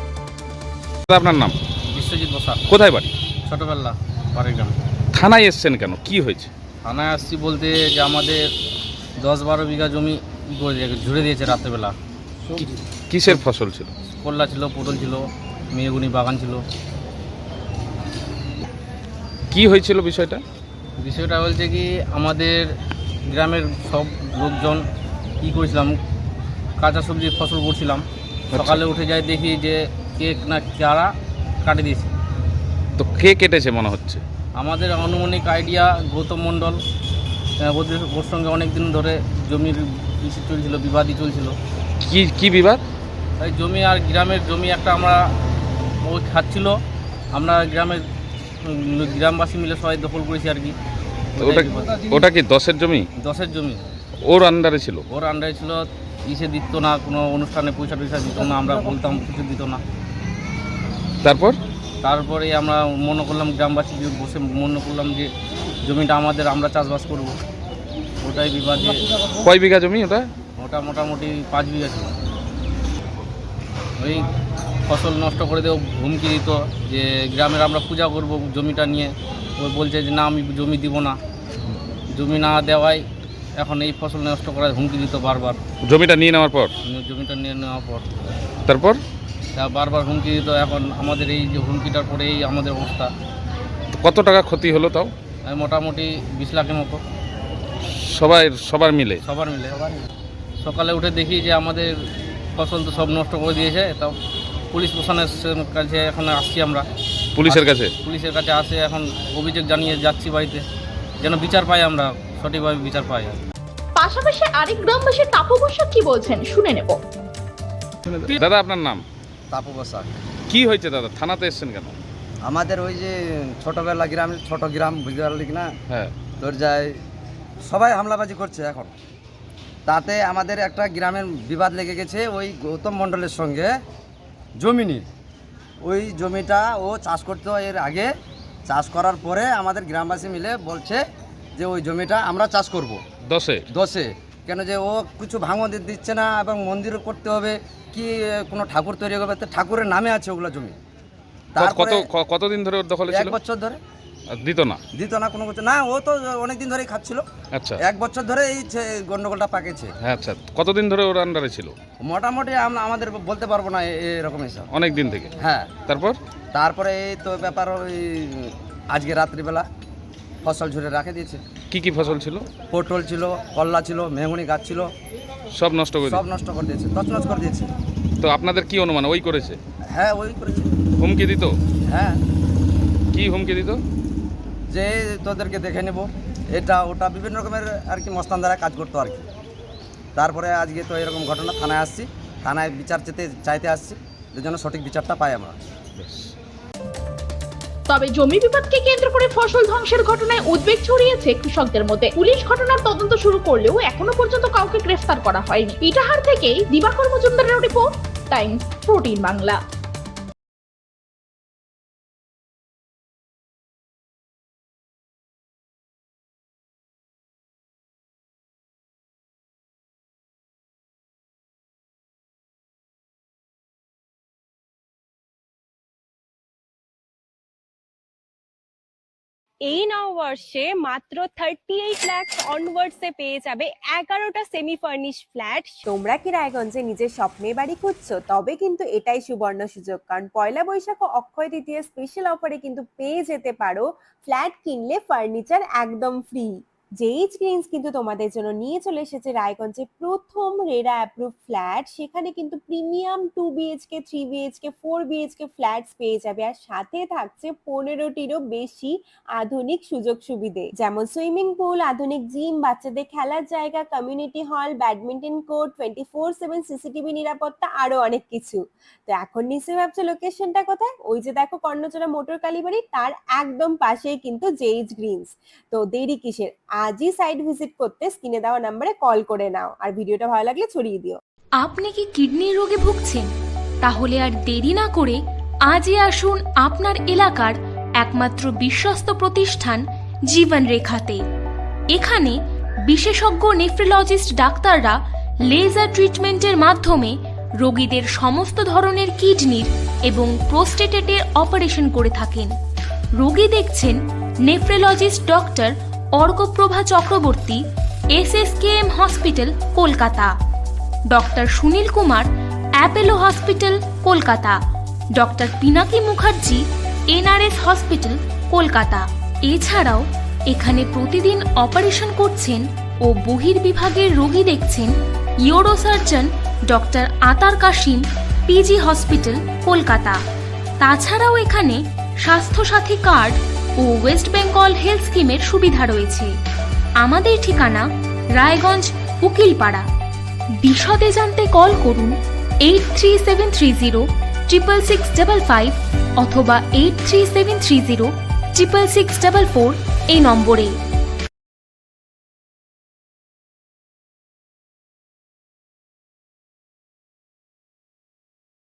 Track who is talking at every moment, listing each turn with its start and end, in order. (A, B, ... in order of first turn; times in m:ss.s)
0:01.1-0:01.6 A
0:01.9-0:02.6 B
0:02.7-0:03.1 A
0:03.5-0:04.8 B
0:05.1-0:06.5 A
0:06.8-0:08.5 B
0:09.2-0:12.0 B
0:13.1-0:13.9 A
0:14.2-0:16.6 B
0:19.5-0:20.4 A
0:21.0-0:22.7 B
0:23.3-0:24.8 B
0:25.4-0:26.0 B
0:26.8-0:31.1 B
0:28.5-0:28.8 A
0:31.6-0:32.1 B
0:33.0-0:34.2 A
0:34.6-0:36.8 B
0:37.7-0:41.6 B
0:42.0-0:42.8 A
0:43.4-0:45.2 B
0:46.1-0:46.8 B
0:47.3-0:48.0 B
0:48.6-0:50.8 B
0:51.4-0:52.2 B
0:51.4-0:53.1 A
0:53.2-0:53.8 B
0:54.2-0:55.0 A
0:55.1-0:59.8 B
1:01.2-1:01.6 A
1:02.0-1:05.3 B
1:05.8-1:07.3 B
1:08.2-1:09.0 B
1:09.4-1:10.3 A
1:10.6-1:12.2 B
1:14.0-1:14.3 B
1:14.9-1:21.2 B
1:22.1-1:23.0 B
1:23.6-1:25.6 B
1:25.8-1:26.7 A
1:26.8-1:28.0 B
1:28.7-1:29.0 A
1:29.6-1:33.1 B
1:33.9-1:35.1 A
1:35.5-1:37.0 B
1:38.0-1:39.2 A
1:39.2-1:39.8 B
1:40.6-1:41.9 B
1:42.6-1:44.1 B
1:44.7-1:46.8 B
1:47.4-1:47.9 A
1:47.4-1:50.6 B
1:51.2-1:53.4 B
1:54.0-1:57.0 C
1:58.1-1:59.0 A
1:59.5-2:00.1 D
2:00.5-2:02.0 A
2:02.4-2:05.7 D
2:05.9-2:06.1 A
2:06.4-2:06.9 D
2:07.6-2:08.9 D
2:09.9-2:13.7 D
2:14.6-2:15.1 D
2:15.8-2:18.1 D
2:18.7-2:21.0 D
2:21.6-2:23.0 D
2:23.3-2:23.6 A
2:23.7-2:30.8 D
2:31.6-2:32.1 D
2:31.6-2:33.4 A
2:33.1-2:33.8 D
2:34.3-2:34.8 A
2:35.0-2:37.2 D
2:37.5-2:37.8 A
2:37.8-2:39.9 D
2:40.0-2:41.7 A
2:42.0-2:44.7 D
2:44.7-2:45.3 A
2:45.4-2:45.7 D
2:45.9-2:46.2 A
2:46.5-2:49.6 D
2:50.4-2:51.4 D
2:51.7-2:52.5 A
2:52.7-2:54.9 D
2:55.6-2:56.2 A
2:56.0-2:57.7 D
2:58.2-2:59.6 A
2:59.9-3:00.7 D
3:01.0-3:01.6 A
3:01.9-3:02.2 D
3:03.1-3:03.8 A
3:04.7-3:09.2 D
3:10.2-3:15.6 D
3:16.0-3:16.3 A
3:17.9-3:29.6 C
3:49.7-3:55.6 E
3:55.8-4:41.2 F
4:41.6-4:43.3 G
4:43.8-4:51.2 G
4:51.9-5:02.5 G
5:03.2-5:07.6 G
5:08.1-5:10.3 G
5:11.1-5:14.6 G
5:15.2-5:30.2 G
5:30.8-5:36.3 G
5:37.0-5:39.9 G
5:40.6-5:50.8 G